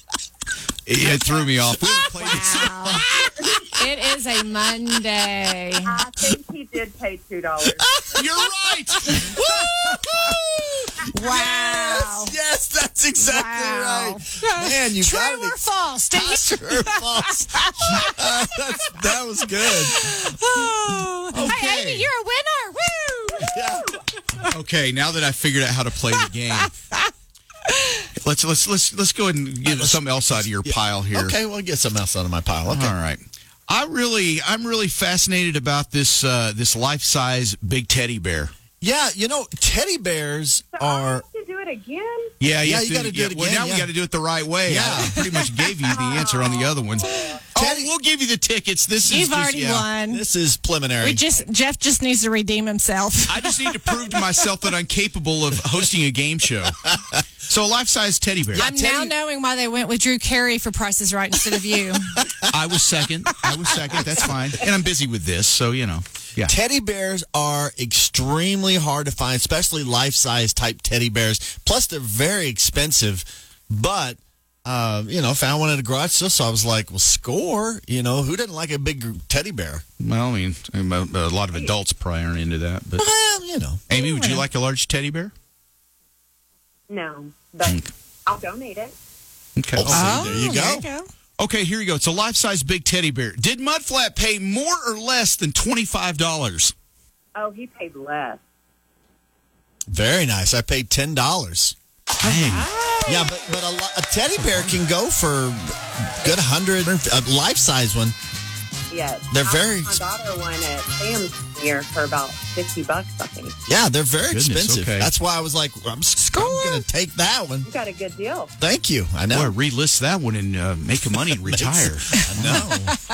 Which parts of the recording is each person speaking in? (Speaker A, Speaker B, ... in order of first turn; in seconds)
Speaker A: 0.8-3.0, 8.1-9.4, 24.5-26.7, 28.1-31.3, 32.7-38.5, 42.4-49.9, 53.3-58.7, 62.5-66.5, 80.0-83.0, 83.9-85.3, 87.6-87.9, 89.6-90.5, 91.4-96.7, 102.2-102.7, 114.2-115.1, 119.3-122.6
Speaker B: 1.9-3.1, 3.7-5.9, 11.1-12.3, 13.2-18.9, 19.6-23.6, 27.6-28.1, 47.0-47.4, 49.0-50.2, 51.0-53.8, 58.5-62.2, 83.9-84.5, 89.9-91.0, 102.2-103.4, 116.3-116.8
Speaker C: 3.0-3.4, 7.8-8.5, 9.0-20.2, 21.3-22.1, 23.4-24.0, 29.6-33.0, 38.8-41.2, 42.6-43.9, 44.6-45.3, 47.5-47.9, 50.0-51.2, 58.5-59.1, 63.5-64.2, 66.4-79.8, 83.0-83.8, 89.8-90.9, 99.9-101.7, 103.0-108.2, 109.3-110.0, 113.7-117.7, 118.6-119.5, 121.3-123.0
Speaker D: 5.8-7.9, 40.8-42.3, 45.9-47.4, 86.9-88.9, 97.3-98.4, 108.9-113.5, 117.6-118.5